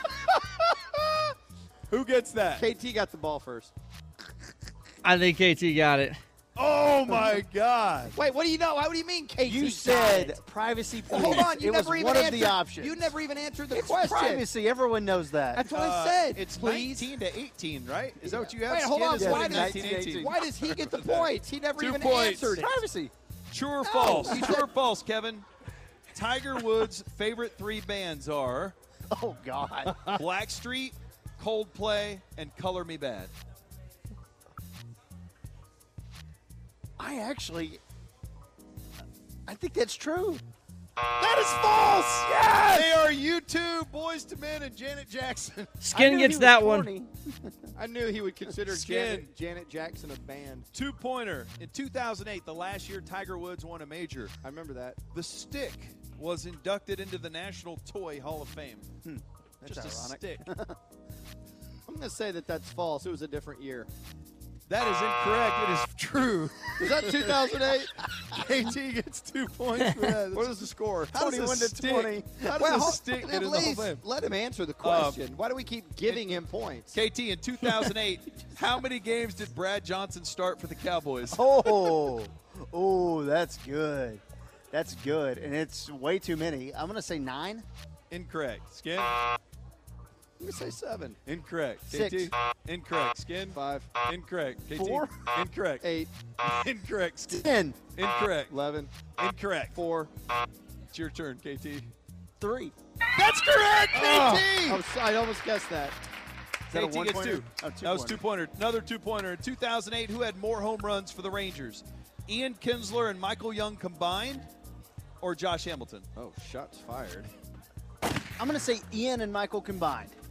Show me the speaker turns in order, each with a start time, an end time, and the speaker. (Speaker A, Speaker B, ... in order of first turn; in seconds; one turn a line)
Speaker A: 1.9-2.6
Speaker B: 2.5-3.7
Speaker C: 5.0-6.2
Speaker A: 6.5-8.1
Speaker B: 7.1-7.4
Speaker B: 8.1-10.3
Speaker D: 9.4-13.1
Speaker B: 11.1-14.5
Speaker D: 13.7-15.7
Speaker B: 15.5-17.1
Speaker A: 15.7-22.6
Speaker D: 18.2-18.5
Speaker B: 18.7-22.8
Speaker D: 19.1-20.3
Speaker D: 22.5-23.1
Speaker A: 23.5-25.4
Speaker D: 23.8-24.6
Speaker B: 23.9-24.6
Speaker A: 26.1-28.8
Speaker D: 29.1-30.1
Speaker B: 29.9-30.1
Speaker A: 30.1-33.3
Speaker D: 37.0-37.8
Speaker D: 39.5-40.4
Speaker B: 41.2-43.0
Speaker A: 42.7-45.9
Speaker C: 45.8-46.9
Speaker D: 45.9-47.5
Speaker B: 47.8-50.6
Speaker A: 48.7-49.3
Speaker A: 50.7-54.3
Speaker B: 54.4-55.0
Speaker A: 55.1-58.9
Speaker D: 59.0-60.8
Speaker A: 59.6-60.5
Speaker B: 61.9-63.9
Speaker A: 64.7-74.0
Speaker B: 66.8-67.9
Speaker B: 70.3-71.2
Speaker D: 71.2-72.7
Speaker B: 72.5-76.9
Speaker A: 74.8-75.2
Speaker A: 76.9-81.4
Speaker D: 81.3-87.7
Speaker A: 88.1-89.2
Speaker B: 90.4-91.2
Speaker A: 91.2-95.9
Speaker D: 91.9-92.3
Speaker B: 93.5-93.9
Speaker D: 94.7-95.2
Speaker B: 95.8-96.1
Speaker A: 96.4-98.5
Speaker D: 97.3-97.8
Speaker B: 98.5-98.9
Speaker A: 99.2-99.8
Speaker B: 99.7-100.1
Speaker A: 100.9-101.9
Speaker D: 102.4-102.7
Speaker A: 103.1-104.8
Speaker B: 103.9-106.0
Speaker D: 104.0-104.4
Speaker D: 106.7-108.2
Speaker A: 106.7-114.5
Speaker A: 115.2-116.1
Speaker B: 116.2-117.3
Speaker D: 118.4-120.2